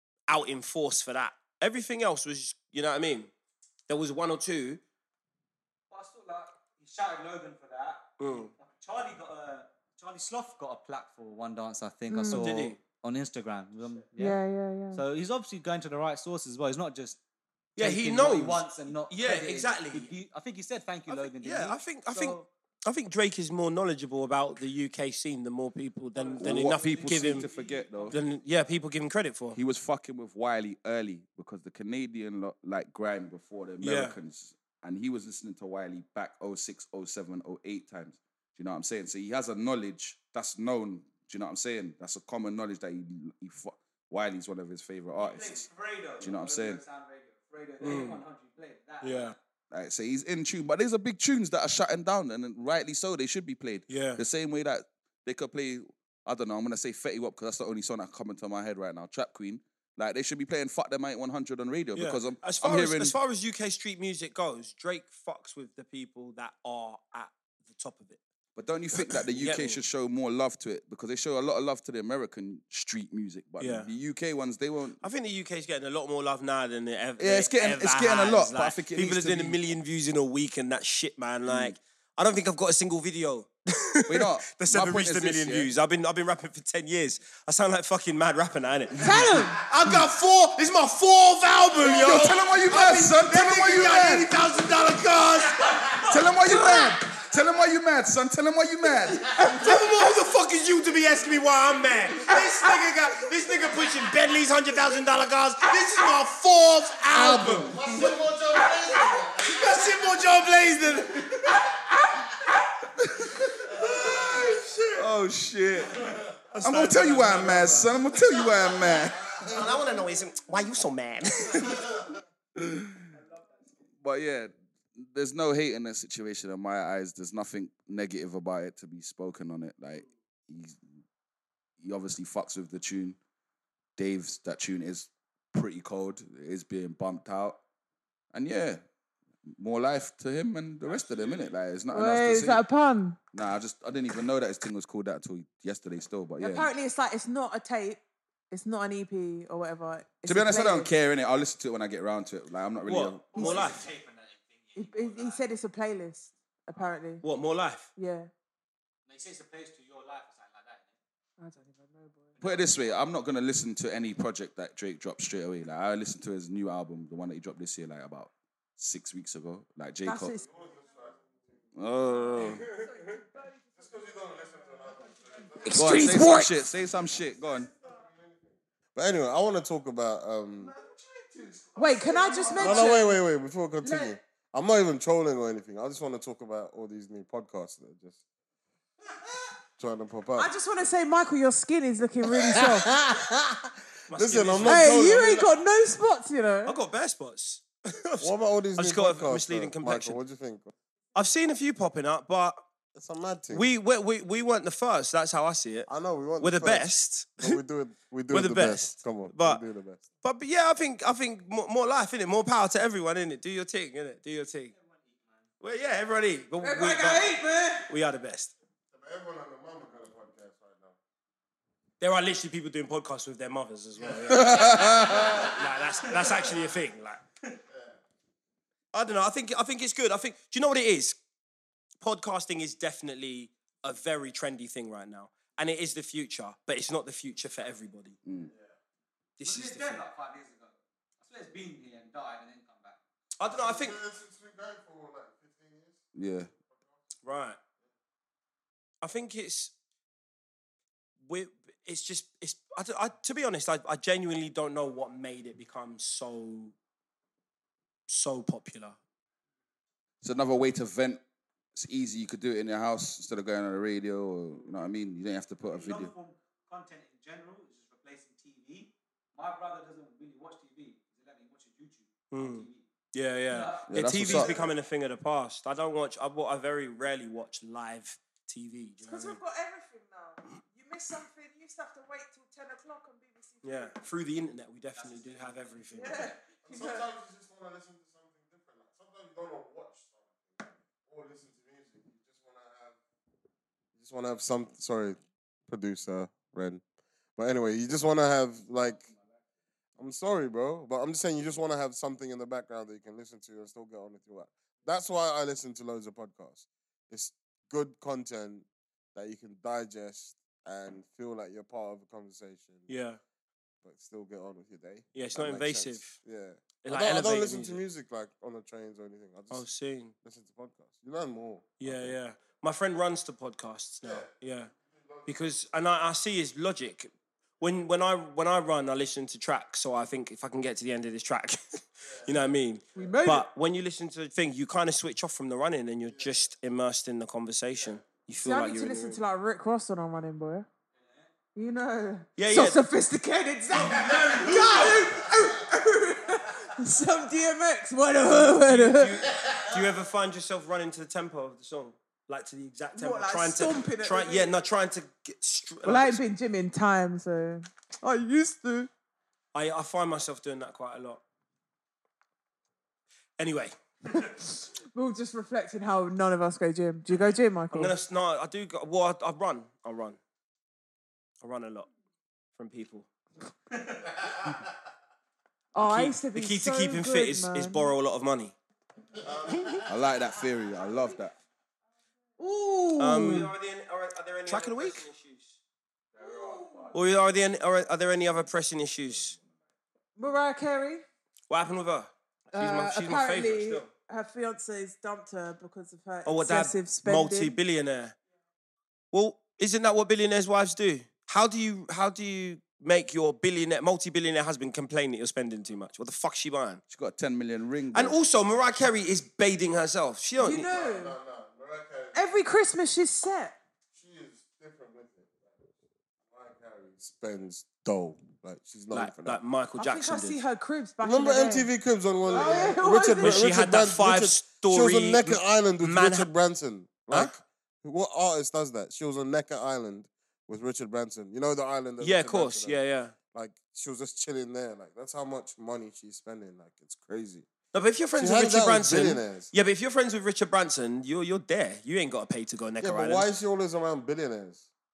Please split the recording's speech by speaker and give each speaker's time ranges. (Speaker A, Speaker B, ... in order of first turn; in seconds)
Speaker A: 0.3-3.3, 3.9-4.8, 8.2-8.5, 12.3-12.8, 17.8-20.1, 21.1-27.5, 28.1-29.6, 33.8-34.2, 47.8-48.2, 49.0-49.4, 53.9-54.2, 62.0-68.2, 69.0-69.8, 73.6-73.9, 75.0-96.0, 99.3-108.2, 109.4-111.5, 114.2-114.8, 116.5-118.4, 119.3-122.0, 152.9-153.9, 157.2-157.9, 194.1-195.1, 196.7-200.2, 201.2-202.6, 203.5-207.6, 208.3-209.6, 210.2-214.7, 215.6-218.5, 222.0-227.2, 228.9-231.2, 232.0-238.2, 239.4-240.0, 243.4-244.0, 247.2-247.6, 249.0-249.7, 251.2-256.7, 258.1-259.0, 272.3-279.4, 283.6-286.3, 312.9-313.2, 315.1-316.2, 316.9-317.8, 319.5-320.1, 321.8-324.7, 325.3-339.2, 342.4-342.8, 344.1-344.9, 348.3-356.2, 359.5-361.2, 363.4-363.8, 367.7-370.2, 371.4-371.9, 372.6-373.1, 375.8-378.6, 379.5-379.8, 383.0-385.5, 386.9-389.4, 391.5-393.9, 396.2-398.2, 399.1-406.8, 407.9-410.7, 418.9-420.4, 423.2-426.3, 432.0-433.1, 437.7-443.3
Speaker B: 5.9-14.4, 14.9-17.2, 17.8-22.5, 26.2-28.2, 45.2-49.4, 153.3-155.4, 159.1-160.9, 182.3-182.7, 214.9-215.4, 239.4-243.0, 265.7-272.9, 273.5-274.6, 285.0-285.8
Speaker C: 12.1-12.6, 14.2-15.0, 89.0-89.6, 141.9-143.2, 146.4-150.9, 154.8-157.2, 158.0-158.3, 161.4-162.4, 170.1-170.5, 175.6-176.5, 181.8-183.2, 183.8-184.2, 190.4-193.1, 194.7-196.8, 216.6-217.9, 279.0-283.9, 286.0-287.1, 333.0-333.5, 338.4-340.7, 341.6-349.2, 352.9-354.5, 355.8-358.9, 364.1-364.4, 364.9-367.9, 375.7-377.9, 382.4-383.5, 390.2-391.0, 392.5-397.6, 410.4-411.2, 412.1-413.6, 419.8-421.7, 422.3-423.5
Speaker D: 26.4-28.2, 29.5-45.6, 46.2-46.8, 49.7-63.1, 68.6-75.0, 77.2-79.6, 81.5-81.8, 84.1-85.7, 89.0-89.4, 91.8-94.3, 96.1-99.4, 107.1-107.8, 114.9-119.5, 122.6-123.0, 124.0-130.8, 131.8-133.2, 134.0-137.6, 138.3-138.8, 139.5-142.6, 143.3-146.7, 150.2-153.5, 162.4-170.4, 171.8-172.6, 175.7-177.7, 180.9-182.4, 224.3-225.4, 238.3-238.5, 246.2-246.5, 260.2-261.2, 261.8-266.1, 273.9-274.6, 379.9-381.3, 406.9-408.2
Speaker E: 107.4-109.8, 170.4-171.6, 173.8-176.1, 177.8-178.4, 178.9-180.7, 182.6-188.2, 189.8-190.5, 192.4-195.5, 198.2-200.7, 202.9-203.7, 205.9-210.1, 218.9-221.0, 224.1-225.3, 243.5-246.0, 286.6-293.0, 294.0-296.8, 297.4-299.1, 300.0-312.9, 313.8-319.6, 320.2-322.1, 324.0-324.3, 324.9-325.5, 332.1-332.4, 379.3-379.5, 410.5-412.4, 413.9-415.6, 416.3-419.4, 421.0-432.8, 433.3-437.5, 438.2-439.5, 442.8-444.7